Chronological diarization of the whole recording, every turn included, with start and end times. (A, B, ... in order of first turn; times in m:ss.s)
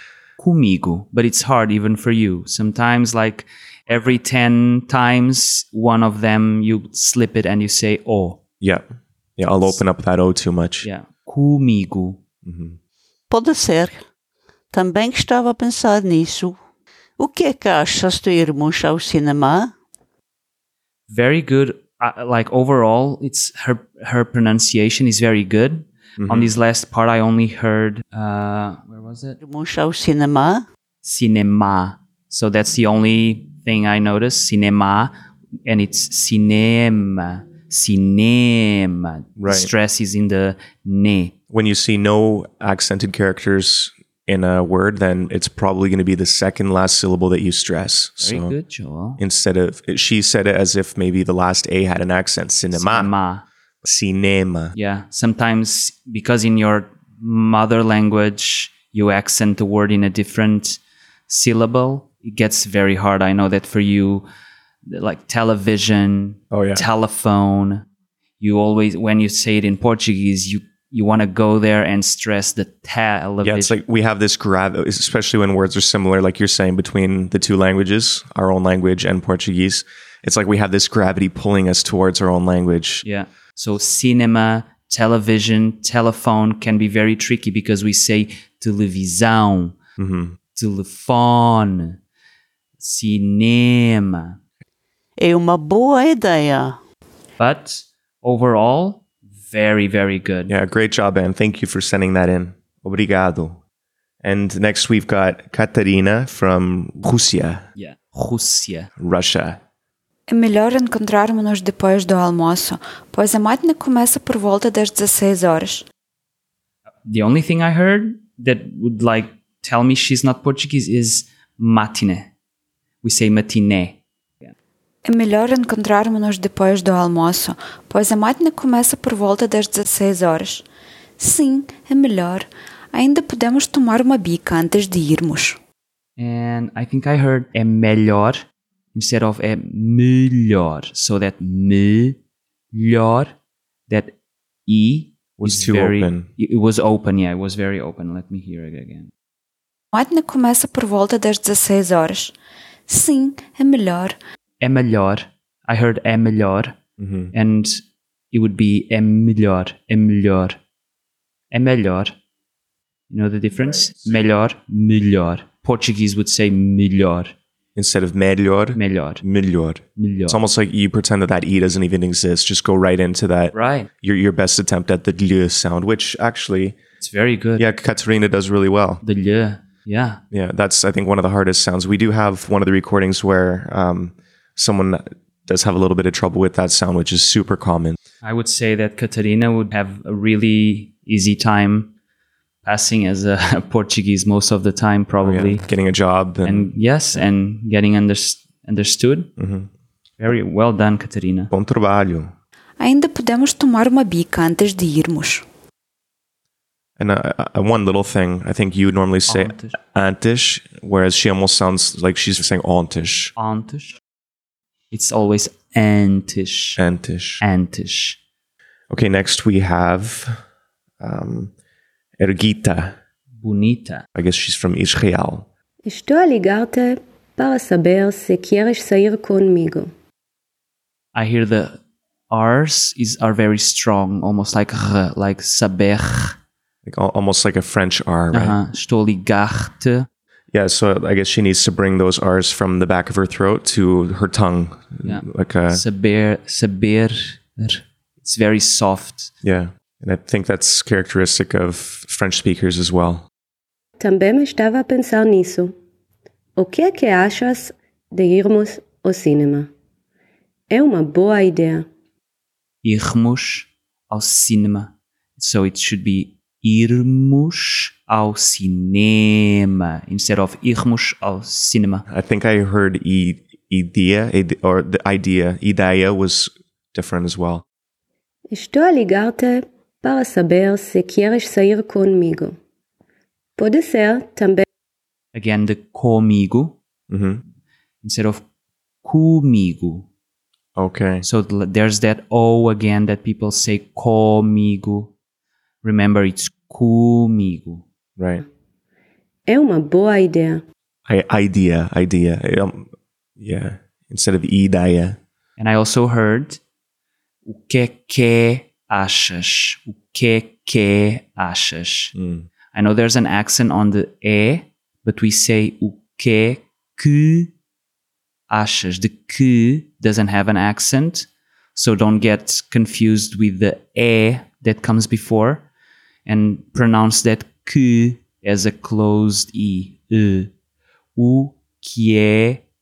0:00.4-0:08.4 A
0:09.4-0:10.9 B
0:10.8-0:12.2 A
0:12.4-0:12.8 B
0:13.3-0:14.0 C
0:14.7-0:16.6 C
0:17.2-0:19.7 C
0:21.1-0:29.4 A
0:26.2-0:26.5 B
0:29.4-0:30.7 C
0:31.0-0:35.1 A
0:35.7-0:41.3 A
0:39.4-0:39.7 B
0:41.5-0:48.5 B
0:48.2-0:49.2 A
0:49.2-0:53.1 B
0:52.7-0:53.4 A
0:53.8-0:54.8 B
0:54.8-1:04.3 A
1:04.9-1:07.9 A
1:06.5-1:06.9 B
1:08.4-1:13.8 A
1:13.4-1:23.0 B
1:23.0-1:29.8 A
1:30.0-1:30.4 B
1:30.6-1:32.0 A
1:32.8-1:34.4 A
1:35.2-1:36.8 C
1:37.4-1:40.5 A
1:40.5-1:43.6 B
1:44.2-1:47.7 B
1:47.8-1:48.9 A
1:49.0-1:49.6 B
1:50.3-1:55.9 D
1:57.0-2:02.3 A
2:03.0-2:04.5 A
2:05.0-2:10.7 D
2:11.2-2:15.6 D
2:16.2-2:22.2 A
2:22.7-2:23.3 A
2:23.9-2:24.1 A
2:24.7-2:29.1 A
2:25.4-2:26.3 B
2:29.9-2:32.4 D
2:32.9-2:34.2 D
2:34.6-2:36.8 A
2:37.0-2:37.3 B
2:37.3-2:37.8 A
2:38.3-2:40.6 A
2:41.5-2:42.2 A
2:43.1-2:47.3 A
2:47.8-2:56.8 B
2:48.8-2:49.2 A
2:50.0-2:50.4 A
2:53.5-2:53.9 A
2:57.0-2:57.6 A
2:57.6-2:59.0 B
2:59.0-3:00.2 A
3:00.3-3:08.0 B
3:08.2-3:11.9 A
3:12.6-3:15.6 A
3:15.2-3:16.7 B
3:16.4-3:19.3 A
3:19.4-3:19.7 B
3:20.2-3:21.5 A
3:21.5-3:22.3 B
3:22.8-3:25.4 D
3:27.0-3:33.3 B
3:29.3-3:29.8 A
3:33.4-3:34.0 A
3:34.9-3:36.8 A
3:36.8-3:37.4 B
3:37.4-3:38.2 A
3:38.9-3:40.4 B
3:41.0-3:41.5 B
3:42.2-3:43.0 B
3:43.4-3:44.0 A
3:44.2-3:45.5 B
3:45.8-3:49.9 E
3:51.1-3:56.4 A
3:56.8-3:58.6 B
3:58.3-4:00.1 A
4:00.5-4:05.8 B
4:05.0-4:09.3 A
4:09.4-4:13.3 B
4:14.0-4:15.7 E
4:16.6-4:19.7 E
4:20.7-4:21.9 E
4:22.8-4:32.0 A
4:32.1-4:37.6 B
4:38.5-4:42.6 E
4:43.6-4:44.6 E
4:45.3-4:46.8 A
4:47.1-4:47.4 B
4:48.0-4:48.4 A
4:49.0-4:50.1 A
4:50.8-4:51.2 B
4:51.2-4:55.1 A
4:55.8-4:57.8 A
4:58.2-4:58.4 B
4:59.5-5:00.6 E
5:01.1-5:05.2 B
5:05.6-5:06.6 A
5:07.5-5:12.1 A
5:12.2-5:12.5 B
5:12.7-5:17.5 A
5:18.5-5:25.7 A
5:26.3-5:30.5 A
5:31.2-5:32.6 A